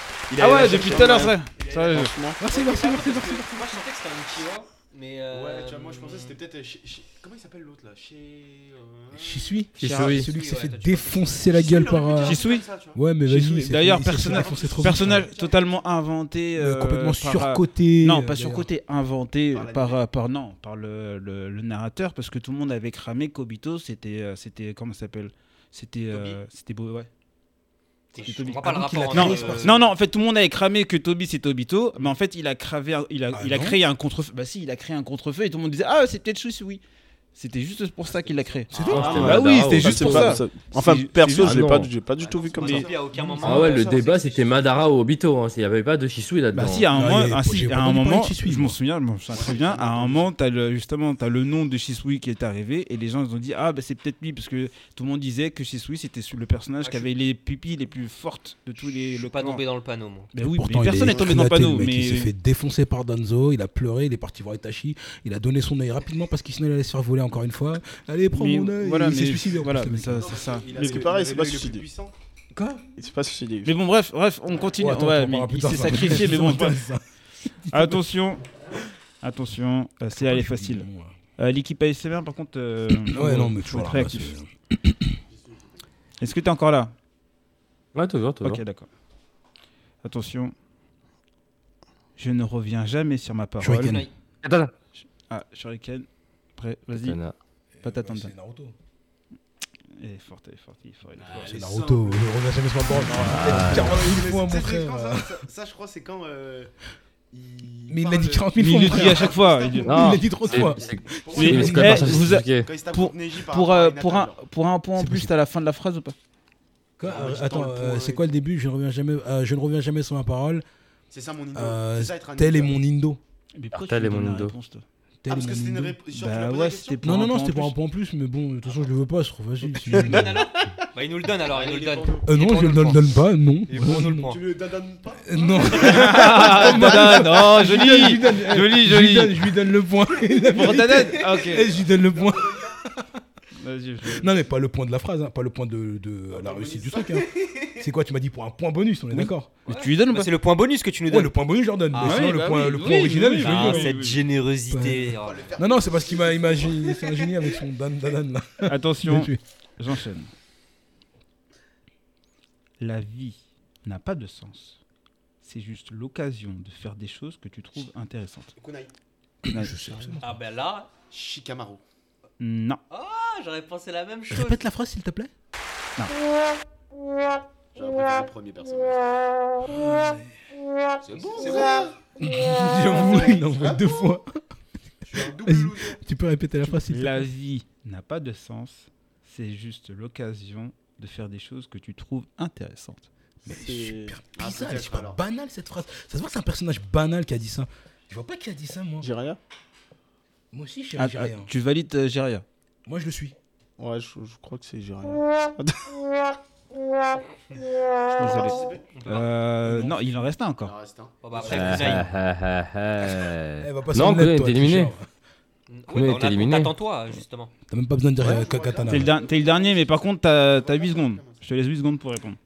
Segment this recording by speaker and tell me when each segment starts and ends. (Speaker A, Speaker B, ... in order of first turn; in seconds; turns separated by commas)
Speaker A: 0.3-2.0, Speaker B: 0.4-2.1, Speaker C: 0.8-1.3, Speaker C: 1.9-2.4, Speaker D: 2.4-3.7, Speaker E: 2.4-6.4, Speaker A: 2.7-3.1, Speaker A: 5.3-9.6, Speaker D: 9.1-15.3, Speaker F: 9.8-10.3, Speaker B: 9.8-10.2, Speaker E: 10.2-11.3, Speaker A: 11.4-13.0, Speaker B: 12.2-12.7, Speaker B: 13.2-27.1, Speaker A: 14.1-15.9, Speaker D: 16.6-18.7, Speaker A: 19.5-20.0, Speaker E: 26.1-26.4, Speaker E: 28.1-29.8, Speaker B: 28.1-36.8, Speaker D: 28.9-29.7, Speaker A: 29.3-29.7, Speaker D: 33.3-33.8, Speaker B: 37.3-41.9, Speaker A: 38.0-39.4, Speaker D: 38.7-40.4, Speaker F: 38.8-40.2, Speaker E: 38.9-39.3, Speaker C: 39.0-42.9, Speaker F: 41.4-41.9, Speaker A: 42.2-44.8, Speaker E: 42.5-44.1, Speaker F: 43.4-46.9, Speaker B: 46.5-59.6, Speaker D: 46.9-48.8, Speaker A: 49.3-50.3, Speaker E: 56.8-57.1, Speaker E: 59.3-60.3, Speaker B: 60.3-62.3, Speaker D: 60.4-70.3, Speaker C: 60.9-61.4, Speaker B: 68.3-71.0, Speaker A: 70.1-72.1, Speaker C: 70.7-71.9, Speaker D: 72.5-72.8, Speaker C: 72.9-73.8, Speaker B: 73.6-76.8, Speaker D: 74.8-78.0, Speaker B: 77.7-78.4, Speaker B: 79.2-84.3, Speaker D: 80.1-81.1, Speaker D: 83.1-85.2, Speaker A: 85.3-85.6, Speaker B: 86.2-86.9, Speaker F: 87.9-88.6, Speaker B: 88.4-88.9, Speaker B: 90.0-90.5, Speaker B: 92.2-94.0, Speaker D: 93.6-94.1, Speaker E: 93.8-94.1, Speaker F: 94.4-94.7, Speaker B: 95.0-97.2, Speaker F: 96.9-97.3, Speaker D: 97.7-98.7, Speaker B: 97.8-98.3, Speaker B: 100.0-101.5, Speaker A: 101.2-102.2, Speaker D: 101.4-105.4, Speaker B: 102.9-103.9, Speaker A: 103.1-106.7, Speaker F: 103.3-104.0, Speaker A: 107.3-114.4, Speaker D: 107.9-112.4, Speaker B: 108.5-110.2, Speaker F: 109.8-112.7, Speaker B: 111.3-116.1, Speaker D: 115.0-115.3, Speaker D: 117.0-120.6, Speaker A: 117.0-118.3, Speaker A: 121.1-122.8, Speaker D: 121.5-123.2, Speaker B: 123.5-124.8, Speaker F: 123.7-124.5, Speaker D: 125.2-126.0, Speaker A: 125.3-127.0, Speaker B: 126.1-127.8, Speaker D: 127.0-130.5, Speaker E: 129.8-133.0, Speaker C: 129.9-130.2, Speaker A: 131.4-132.3, Speaker D: 132.2-134.3, Speaker E: 133.7-134.4, Speaker A: 134.2-137.2, Speaker D: 135.2-143.1, Speaker B: 135.7-139.4, Speaker B: 140.4-141.7, Speaker A: 141.4-142.8, Speaker B: 143.5-144.3, Speaker D: 144.1-149.5, Speaker A: 146.3-147.8, Speaker B: 149.1-150.3, Speaker E: 149.7-151.4, Speaker D: 151.1-154.0, Speaker E: 151.9-152.4, Speaker B: 152.0-154.2, Speaker E: 153.4-155.6, Speaker D: 154.7-159.4, Speaker A: 155.2-157.3, Speaker B: 158.7-160.3, Speaker B: 162.8-164.8, Speaker B: 165.4-168.5, Speaker A: 168.6-168.9, Speaker D: 169.4-170.4, Speaker B: 169.4-170.2, Speaker E: 170.2-170.9, Speaker A: 171.1-171.8, Speaker B: 172.4-172.8, Speaker E: 172.9-174.6, Speaker D: 174.3-175.3, Speaker A: 177.7-179.1, Speaker D: 179.6-180.3, Speaker A: 181.0-182.0, Speaker D: 181.1-181.5, Speaker E: 181.4-181.9, Speaker D: 182.2-184.4, Speaker A: 182.8-183.9, Speaker B: 182.9-183.4, Speaker A: 185.1-186.0, Speaker D: 185.1-187.3, Speaker B: 186.6-193.1, Speaker C: 193.4-194.2, Speaker D: 193.4-199.1, Speaker A: 194.3-195.2, Speaker C: 199.0-199.4, Speaker D: 200.5-201.5, Speaker B: 201.0-202.4, Speaker D: 202.8-203.3, Speaker C: 203.8-206.3, Speaker B: 208.1-210.7, Speaker A: 208.2-208.9, Speaker E: 208.9-209.3, Speaker D: 209.6-210.0, Speaker A: 210.6-212.1, Speaker E: 211.2-212.1, Speaker F: 211.4-214.9, Speaker D: 213.6-215.1, Speaker E: 215.7-217.5, Speaker F: 215.9-216.7, Speaker D: 217.7-219.2, Speaker A: 218.2-221.4, Speaker B: 218.9-222.4